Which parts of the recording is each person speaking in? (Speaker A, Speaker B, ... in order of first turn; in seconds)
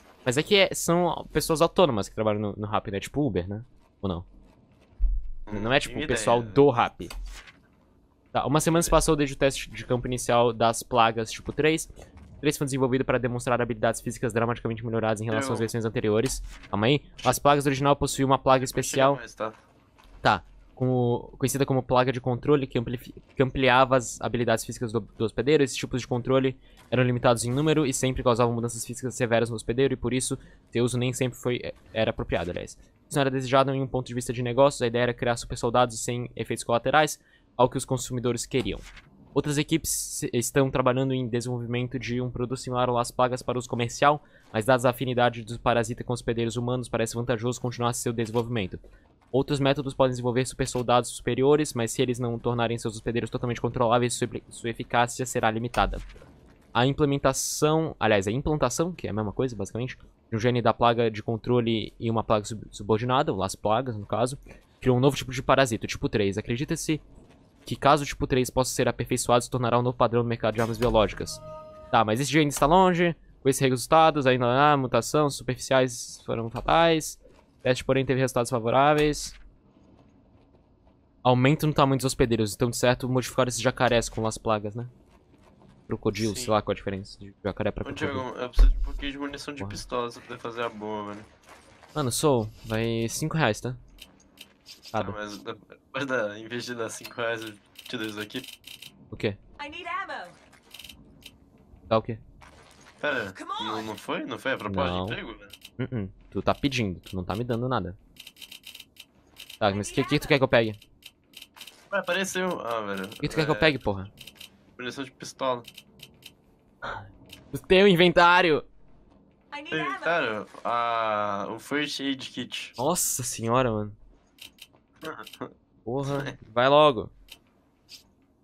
Speaker A: 0.2-4.3, 5.5-7.1, 8.3-19.2, 20.2-48.8, 49.3-56.0, 56.7-67.0, 67.7-71.4, 71.9-79.4, 81.2-84.9, 85.9-88.2, 92.0-93.8, 99.1-99.4, 101.9-102.2, 104.7-105.2, 105.8-108.0, 109.6-110.8, 113.2-114.1, 116.8-118.7, 122.8-124.0, 125.9-127.1
Speaker B: 5.5-6.7, 8.7-8.9, 15.3-15.7, 18.5-19.6, 86.2-86.6, 87.8-91.3, 94.9-98.5, 103.0-105.5, 111.9-113.8, 114.8-115.7, 119.7-122.7, 125.0-125.5, 126.0-126.3
Speaker C: 99.6-100.4, 103.3-104.0, 109.6-110.4, 119.5-120.2